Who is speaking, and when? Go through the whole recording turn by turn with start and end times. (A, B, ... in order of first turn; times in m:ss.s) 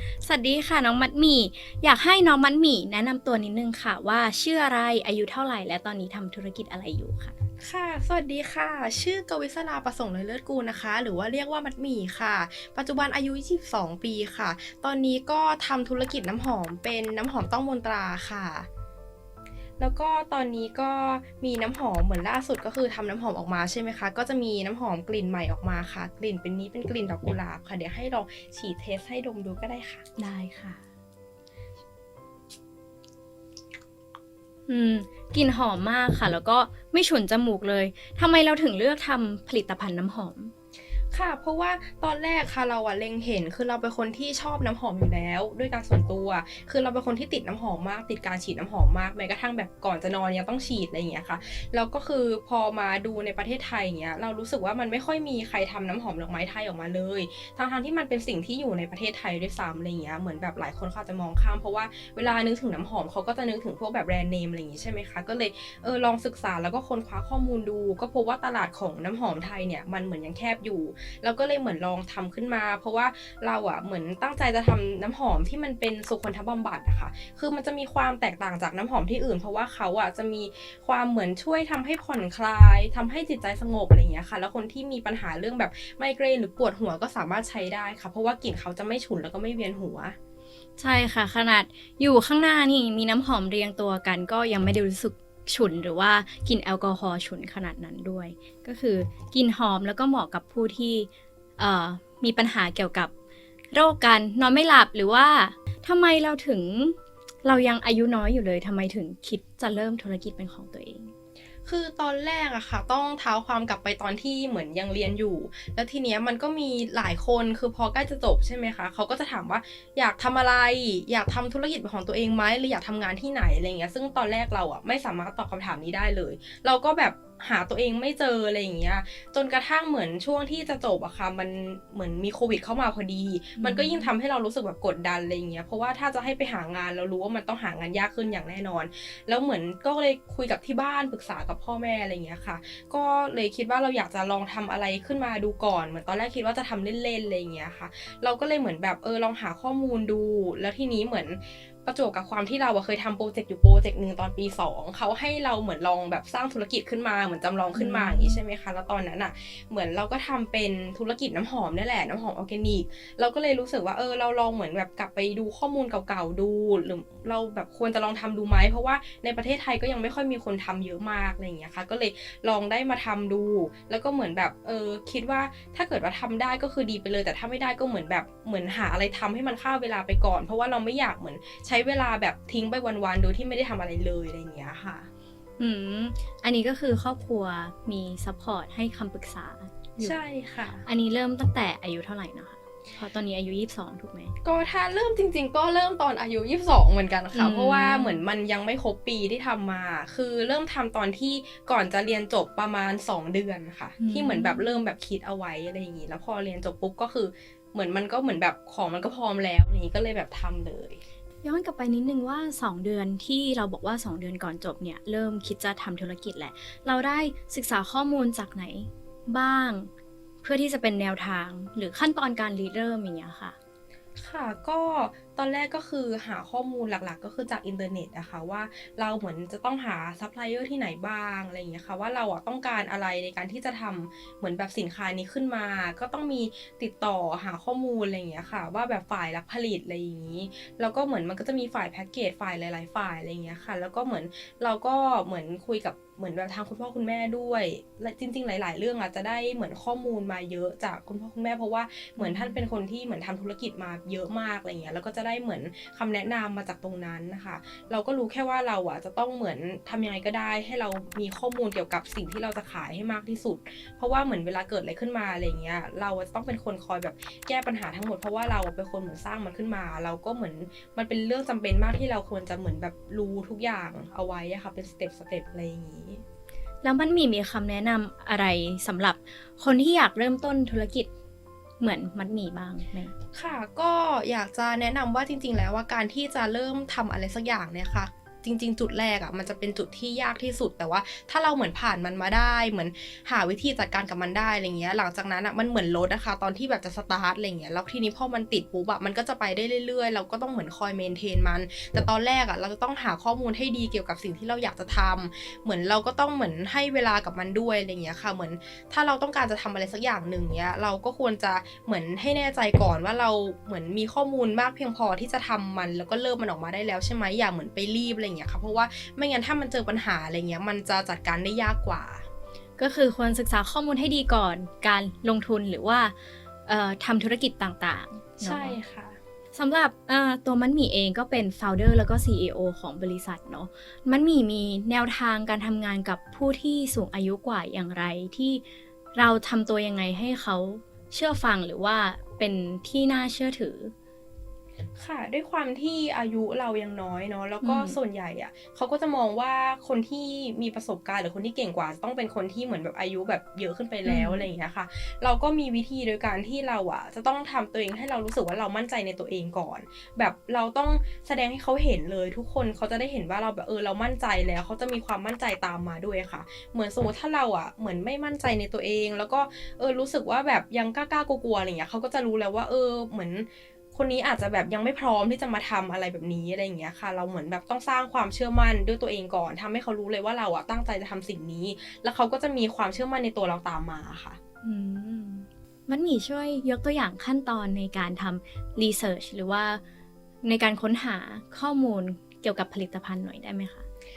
0:00.2-0:07.3 A
0:07.6-0:18.7 B
0:19.8-0:30.0 B
0:30.2-0:30.8 A
0:34.7-0:40.5 A
0:41.1-1:30.2 B
1:30.8-1:43.1 A
1:43.7-1:51.1 A
1:51.6-3:05.1 B
2:13.6-2:14.1 A
2:37.7-2:38.4 A
3:05.6-3:10.2 A
3:10.0-3:10.8 B
3:10.8-3:14.3 A
3:14.4-3:31.0 B
3:17.3-3:18.2 A
3:24.0-3:24.8 A
3:31.4-3:39.9 A
3:40.4-3:43.6 A
3:44.2-4:36.2 B
4:12.2-4:12.6 A
4:36.8-4:41.1 A
4:41.8-4:43.1 A
4:43.3-5:22.2 B
5:22.8-5:26.1 A
5:26.6-5:28.8 A
5:28.4-5:29.2 B
5:29.5-5:38.6 A
5:39.1-5:43.9 A
5:45.0-6:24.4 B
5:47.6-5:48.0 A
5:54.0-5:54.5 A
6:24.6-6:29.8 A
6:30.4-6:33.8 A